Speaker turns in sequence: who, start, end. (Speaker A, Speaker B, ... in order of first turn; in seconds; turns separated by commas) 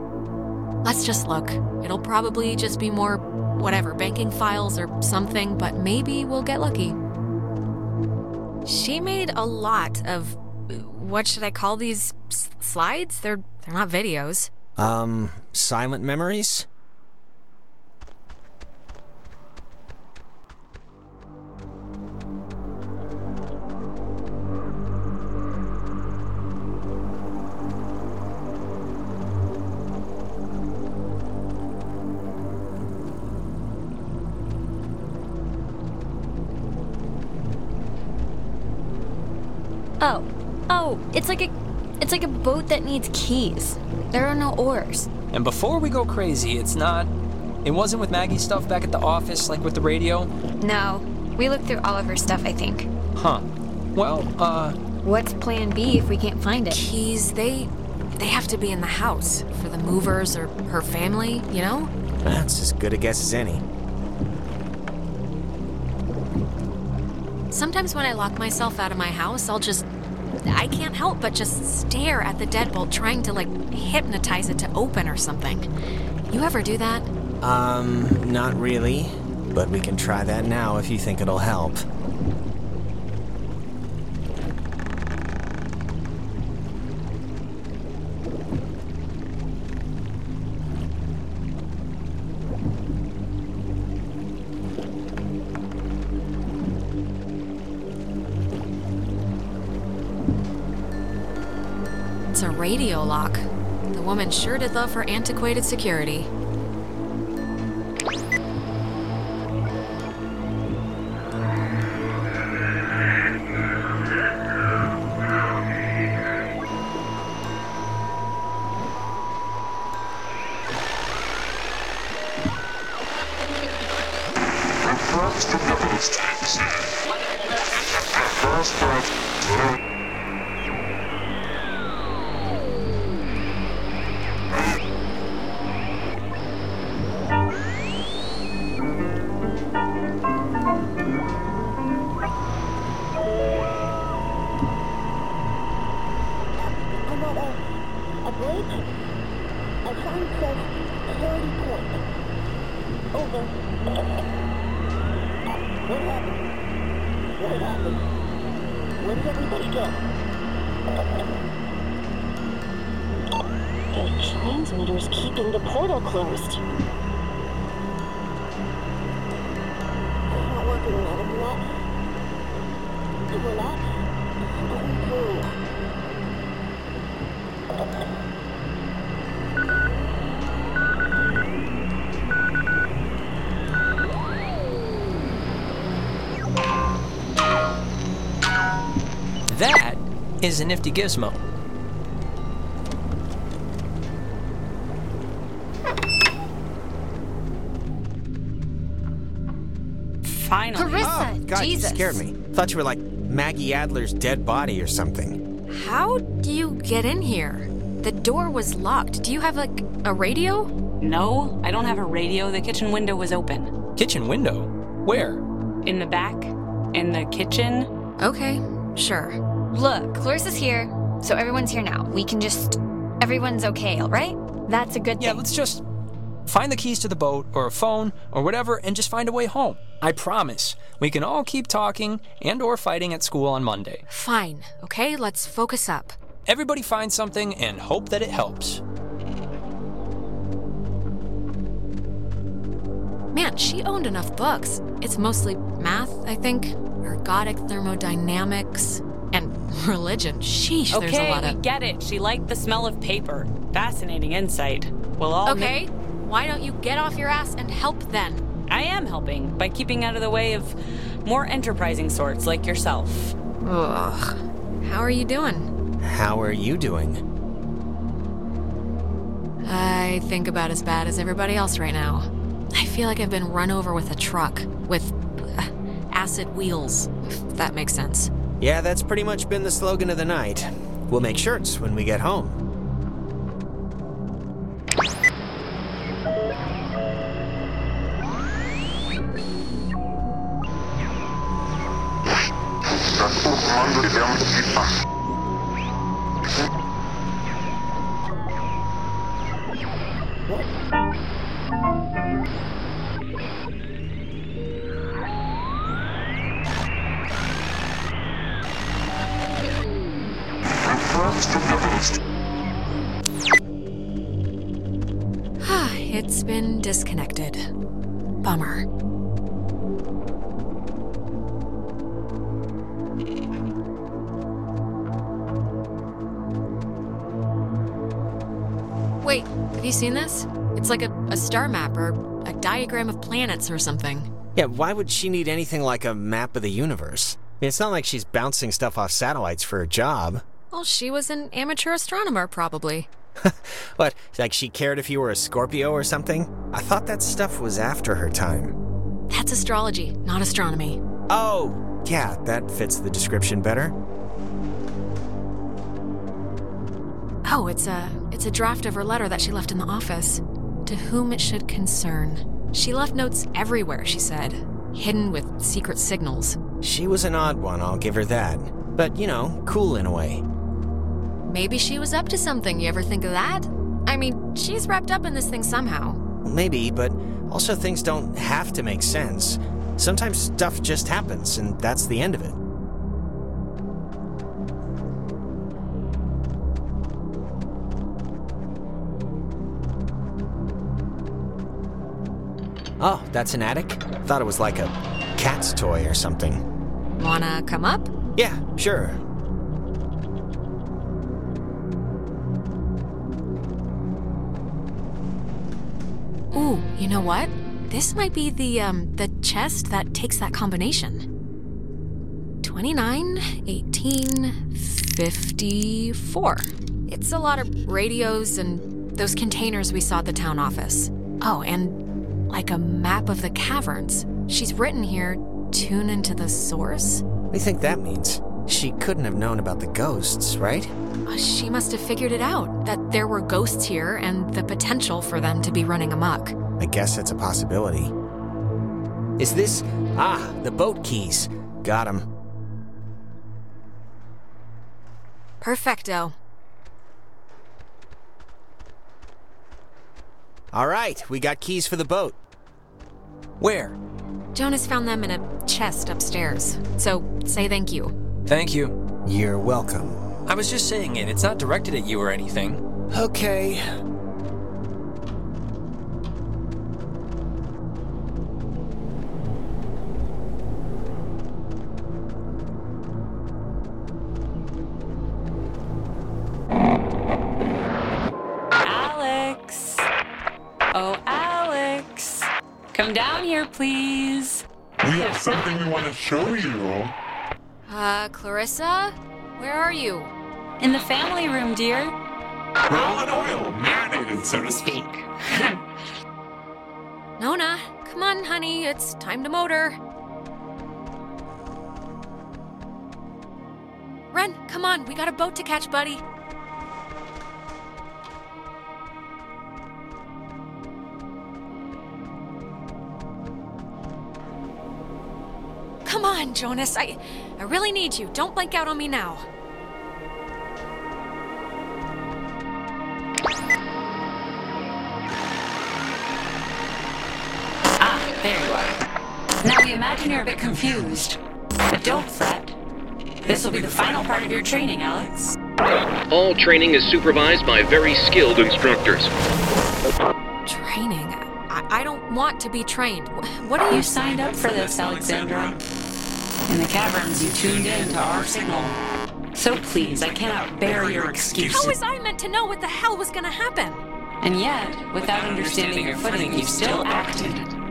Speaker A: 0.8-7.0, Speaker A: 8.7-14.5, Speaker B: 14.8-16.7, Speaker C: 40.0-45.1, Speaker D: 45.3-47.1, Speaker D: 47.6-50.3, Speaker C: 50.6-52.9, Speaker D: 53.2-53.4, Speaker D: 53.9-54.8, Speaker C: 55.0-56.8, Speaker A: 56.7-61.9, Speaker B: 62.2-63.6, Speaker A: 67.5-69.9, Speaker A: 70.4-75.7, Speaker A: 76.3-77.1, Speaker B: 77.4-81.8, Speaker A: 102.3-106.3, Speaker E: 125.1-126.3, Speaker F: 146.6-147.6, Speaker F: 148.2-148.8, Speaker F: 149.8-152.0, Speaker F: 153.1-154.1, Speaker F: 155.8-156.4, Speaker F: 157.3-158.0, Speaker F: 159.0-160.0, Speaker F: 163.9-166.6, Speaker F: 170.3-171.7, Speaker F: 173.3-173.9, Speaker F: 174.6-175.5, Speaker D: 189.5-191.4, Speaker G: 200.2-201.2, Speaker C: 200.8-202.2, Speaker B: 201.0-205.4, Speaker A: 205.7-210.7, Speaker G: 211.0-213.7, Speaker D: 214.0-215.4, Speaker G: 215.8-217.9, Speaker A: 218.2-219.4, Speaker C: 219.7-225.4, Speaker D: 225.2-225.8, Speaker D: 226.5-234.0, Speaker A: 234.1-236.2, Speaker D: 236.5-238.8, Speaker A: 243.3-251.6, Speaker G: 250.9-255.8, Speaker A: 255.4-258.4, Speaker G: 258.7-263.4, Speaker A: 263.6-265.7, Speaker B: 266.0-267.2, Speaker A: 269.6-278.3, Speaker B: 278.6-282.6, Speaker A: 315.6-317.6, Speaker A: 318.4-318.9, Speaker A: 329.2-334.3, Speaker B: 334.6-340.4, Speaker A: 340.7-343.1, Speaker B: 343.4-348.7, Speaker A: 349.3-351.0, Speaker B: 351.3-353.9, Speaker A: 357.4-366.6, Speaker B: 366.8-370.4, Speaker A: 371.5-376.2, Speaker B: 376.4-382.6, Speaker B: 393.0-396.6, Speaker A: 397.2-398.1, Speaker B: 398.4-399.2, Speaker A: 406.5-411.2, Speaker A: 412.6-427.2, Speaker B: 427.5-430.9, Speaker A: 431.3-436.6, Speaker B: 436.8-438.1, Speaker B: 439.4-442.3, Speaker A: 445.6-446.4, Speaker B: 450.7-452.4, Speaker D: 453.6-454.0, Speaker A: 454.6-458.1, Speaker D: 458.5-458.9, Speaker B: 459.2-460.2, Speaker D: 460.5-462.8, Speaker B: 463.1-463.8, Speaker G: 478.8-480.1, Speaker G: 480.9-484.6, Speaker E: 485.0-487.1, Speaker A: 487.9-490.3, Speaker G: 490.8-492.1, Speaker E: 492.9-495.0, Speaker G: 494.8-495.7, Speaker A: 497.4-500.0, Speaker A: 504.3-506.2, Speaker A: 516.0-519.5, Speaker G: 528.0-528.9, Speaker G: 529.6-531.4, Speaker G: 531.9-532.8, Speaker G: 533.5-535.6, Speaker H: 536.3-539.3, Speaker A: 540.6-544.3, Speaker G: 543.9-545.8, Speaker E: 544.4-545.6, Speaker G: 546.7-549.0, Speaker G: 549.5-552.0, Speaker A: 551.6-554.0, Speaker G: 554.4-557.6